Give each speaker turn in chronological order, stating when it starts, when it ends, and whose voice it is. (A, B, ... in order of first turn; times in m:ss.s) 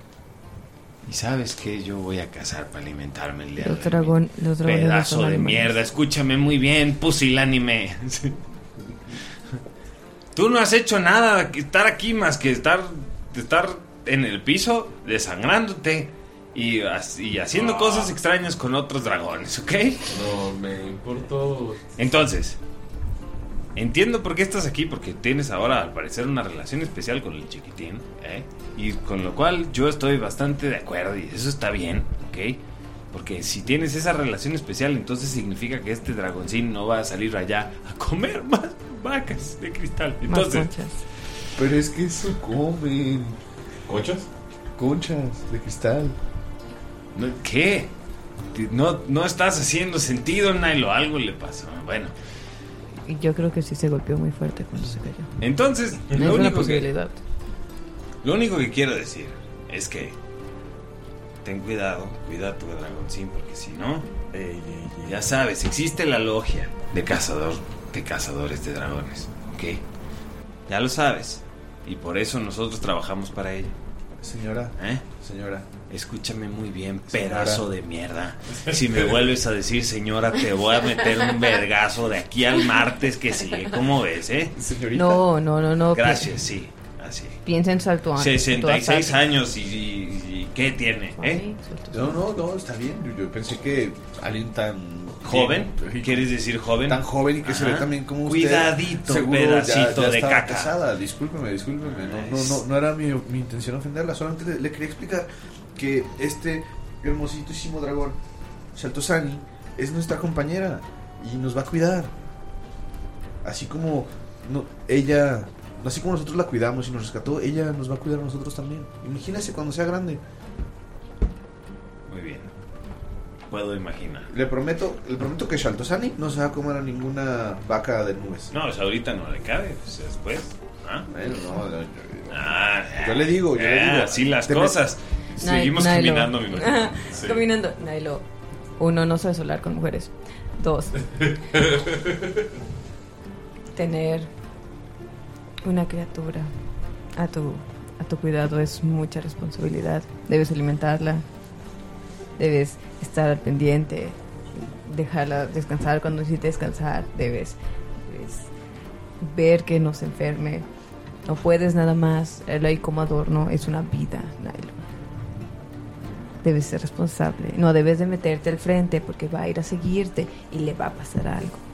0:01.0-0:08.4 A
0:03.6-0:05.8 B
0:10.3-0:20.2 A
0:17.5-0:18.1 C
0:20.1-0:22.1 C
0:22.0-0:22.6 A
0:23.7-0:32.6 A
0:33.1-0:40.7 A
0:40.2-0:40.9 B
0:41.5-0:43.4 D
0:43.9-0:44.3 C
0:44.8-0:46.2 D
0:47.1-0:47.9 A
0:48.5-0:52.1 A
0:53.0-0:55.4 B
0:55.4-0:56.9 A
0:56.1-0:57.2 B
0:58.2-1:00.2 A
1:01.4-1:04.1 A
1:04.3-1:05.2 D
1:05.0-1:09.8 A
1:10.7-1:13.7 A
1:14.2-1:15.7 D
1:14.8-1:15.0 A
1:15.9-1:24.5 A
1:17.1-1:17.6 D
1:24.6-1:25.2 D
1:24.9-1:26.5 B
1:25.9-1:27.4 A
1:27.4-1:29.3 B
1:28.1-1:31.4 A
1:31.2-1:32.2 B
1:31.9-1:48.2 D
1:35.2-1:40.7 A
1:41.8-1:42.6 A
1:48.7-1:52.1 D
1:53.4-2:00.2 D
2:02.1-2:02.5 A
2:03.5-2:04.3 A
2:04.3-2:08.5 D
2:08.5-2:11.1 A
2:11.1-2:14.8 D
2:12.3-2:17.1 A
2:15.4-2:18.2 B
2:17.1-2:17.4 C
2:18.8-2:21.0 B
2:21.2-2:22.2 C
2:23.7-2:24.3 B
2:25.6-2:26.5 B
2:27.1-2:31.2 B
2:32.4-2:38.5 B
2:39.2-2:40.6 B
2:41.2-2:44.8 B
2:46.4-2:51.6 B